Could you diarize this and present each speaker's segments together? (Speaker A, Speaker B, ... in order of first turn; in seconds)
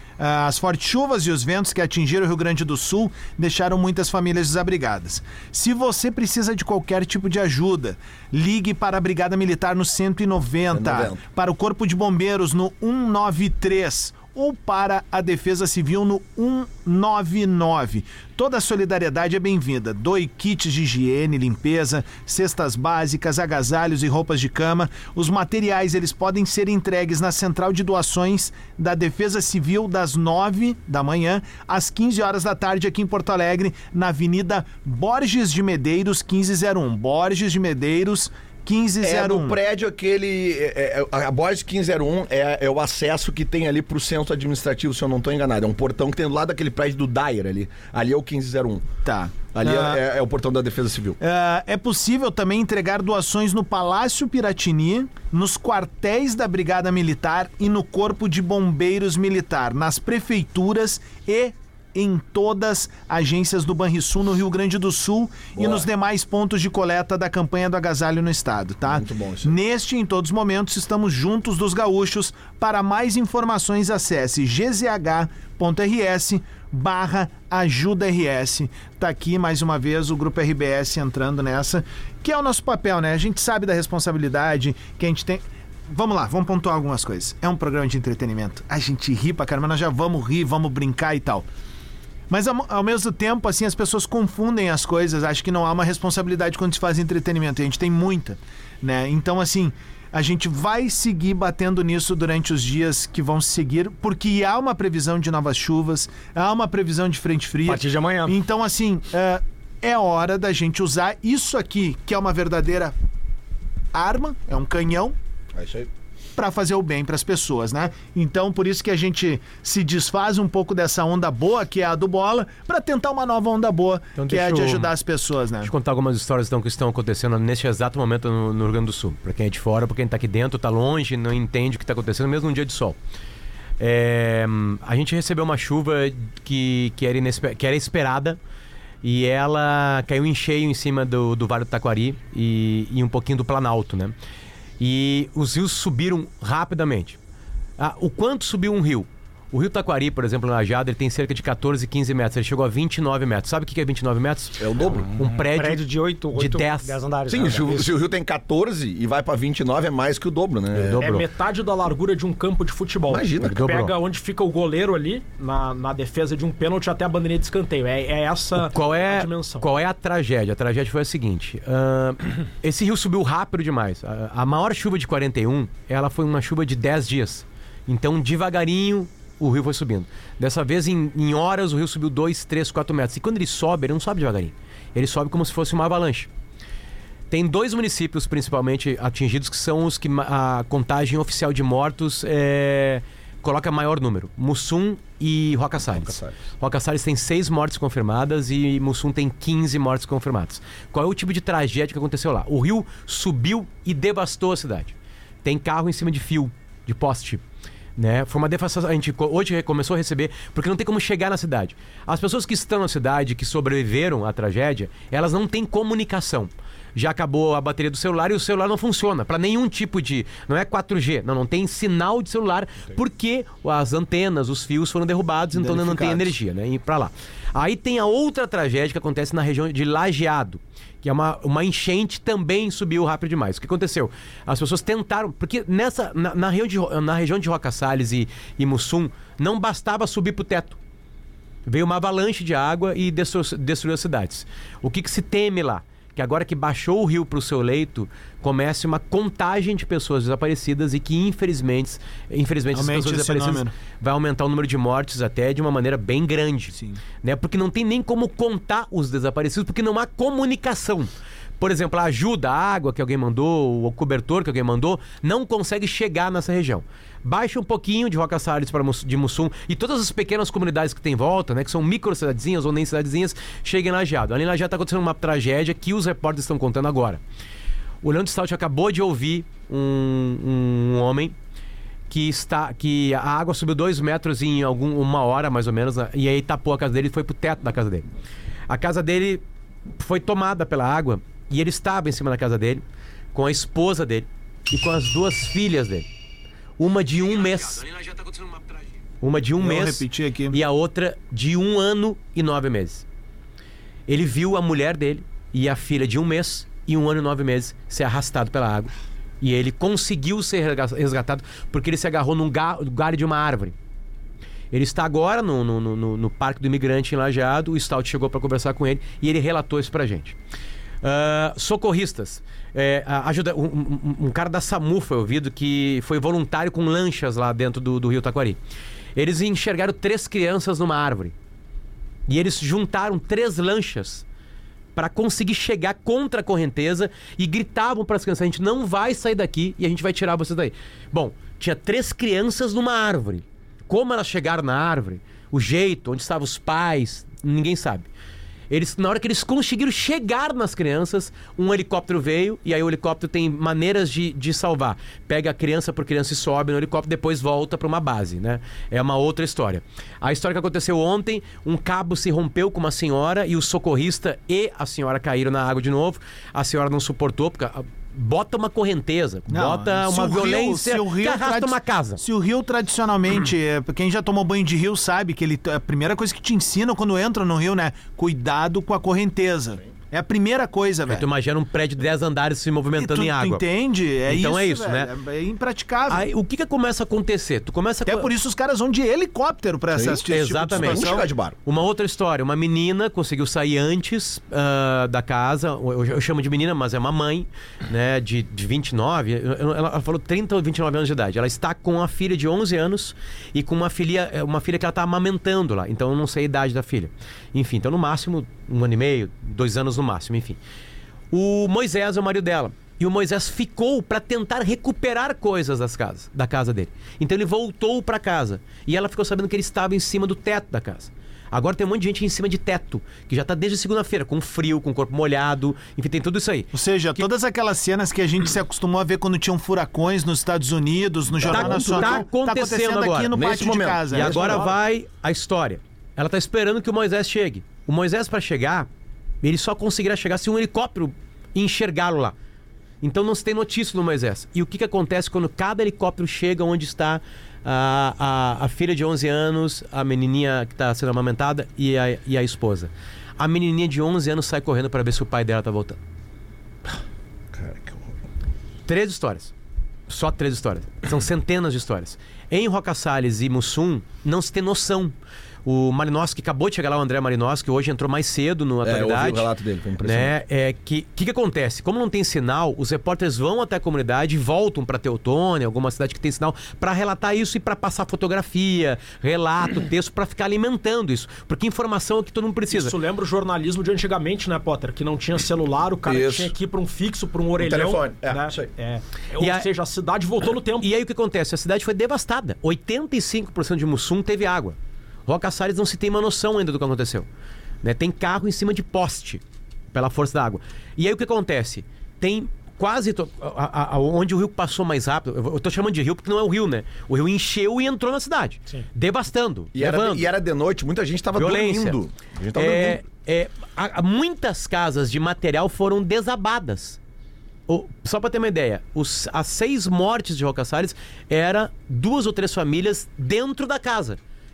Speaker A: 0.2-39.6, 49.0-50.0, 51.2-91.5, 92.3-112.9, 113.9-115.2, 116.4-125.7, 225.5-226.3, 252.7-253.7, 256.7-257.0, 299.6-300.6, 369.5-381.2, 382.9-386.3, 388.1-391.3, 426.7-434.6
Speaker B: 10.7-11.2, 39.0-48.8, 49.5-51.2, 65.5-65.9, 68.9-69.5, 115.5-115.9, 154.6-155.2, 157.3-161.0, 163.1-163.9, 195.9-196.3, 389.9-391.6, 431.4-432.2, 433.3-434.8, 457.5-458.1, 468.8-470.3, 486.1-486.5, 487.6-488.7, 509.8-513.0
Speaker C: 107.7-108.4, 155.2-158.0, 163.4-163.7
Speaker D: 124.2-124.9, 125.6-133.0, 133.8-138.4, 139.0-144.1, 144.8-147.2, 147.8-154.6, 155.2-155.8, 156.3-157.0, 160.7-161.3, 168.6-186.3, 187.3-204.9, 205.4-207.4, 208.0-240.8, 241.7-277.2, 278.0-281.4, 282.1-288.1, 288.7-289.4, 290.0-292.8, 293.4-296.1, 296.8-298.6, 299.2-303.0, 304.1-313.8, 314.7-320.4, 321.0-328.6, 329.2-331.3, 332.3-334.2, 334.9-348.1, 348.7-372.2, 381.1-383.6, 384.3-385.1, 386.1-388.3, 390.3-410.6, 411.3-427.3, 431.5-433.4, 434.1-438.9, 439.4-442.3, 443.0-456.0, 458.9-459.5, 460.1-465.1, 465.6-469.5, 470.0-482.9, 489.4-489.7, 490.8-494.8, 495.3-497.3, 497.8-499.4, 499.9-510.3, 511.3-512.0, 512.5-517.0, 517.7-524.2
Speaker E: 161.0-169.7, 482.7-490.9